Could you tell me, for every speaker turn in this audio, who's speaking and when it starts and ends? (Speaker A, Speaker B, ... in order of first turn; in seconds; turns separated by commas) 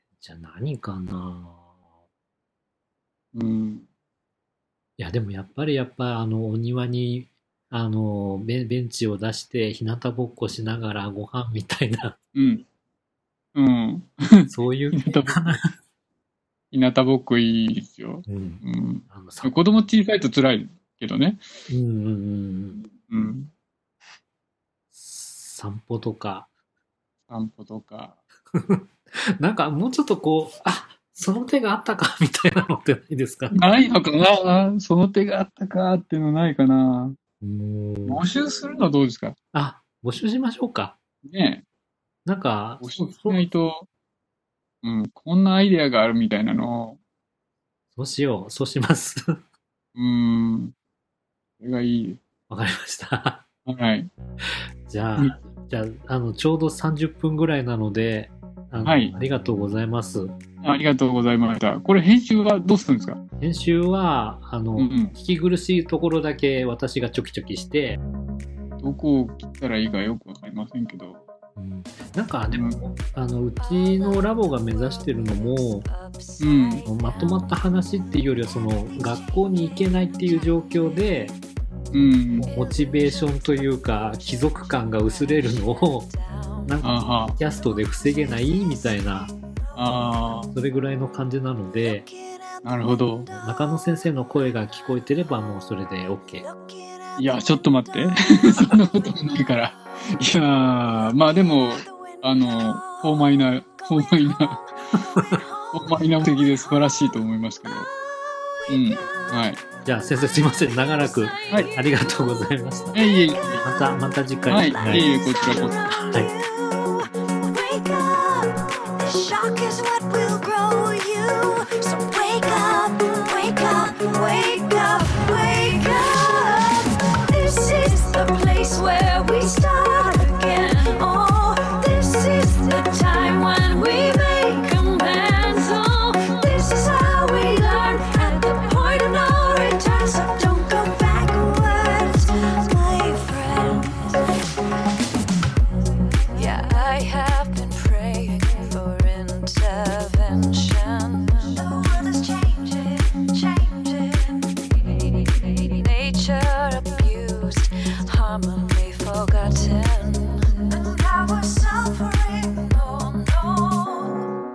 Speaker A: 0.2-1.7, Speaker B: 3.3-3.9, Speaker A: 5.0-12.2, Speaker B: 12.3-12.6, Speaker B: 13.6-15.4, Speaker A: 14.5-15.7, Speaker B: 16.7-21.4, Speaker A: 18.3-19.6, Speaker A: 21.7-22.9, Speaker B: 23.1-23.5, Speaker A: 24.9-26.5, Speaker B: 27.3-28.2, Speaker A: 28.5-33.6, Speaker B: 33.5-37.2, Speaker A: 37.4-38.2, Speaker B: 38.1-39.4, Speaker A: 39.5-41.0, Speaker B: 41.2-41.6, Speaker A: 42.2-43.5, Speaker B: 42.8-43.9, Speaker B: 44.8-47.0, Speaker A: 48.0-49.3, Speaker B: 50.0-50.7, Speaker B: 51.6-52.2, Speaker A: 52.5-53.4, Speaker B: 53.7-54.1, Speaker A: 54.9-60.4, Speaker B: 58.8-59.1, Speaker B: 60.6-63.2, Speaker A: 63.4-68.0, Speaker B: 64.8-65.1, Speaker B: 68.8-71.2, Speaker A: 71.6-75.9, Speaker B: 72.5-72.9, Speaker C: 73.6-81.1, Speaker B: 76.4-76.8, Speaker A: 76.8-81.4, Speaker B: 81.9-82.5, Speaker C: 82.4-83.6, Speaker A: 82.4-86.1, Speaker C: 84.1-86.8, Speaker A: 86.7-89.3, Speaker B: 86.8-87.4, Speaker C: 87.4-88.7, Speaker B: 89.8-90.5, Speaker A: 90.5-92.1, Speaker C: 91.8-93.5, Speaker B: 92.6-93.3, Speaker A: 93.3-96.5, Speaker C: 94.5-94.8, Speaker C: 96.4-107.1, Speaker B: 97.2-104.6, Speaker A: 105.2-105.4, Speaker B: 105.7-107.9, Speaker C: 107.7-109.4, Speaker B: 108.7-109.6, Speaker A: 109.8-113.0, Speaker C: 110.5-112.1, Speaker B: 112.9-113.7, Speaker C: 113.3-113.8, Speaker A: 113.6-115.1, Speaker B: 114.5-115.8, Speaker C: 114.5-144.3, Speaker C: 146.3-164.3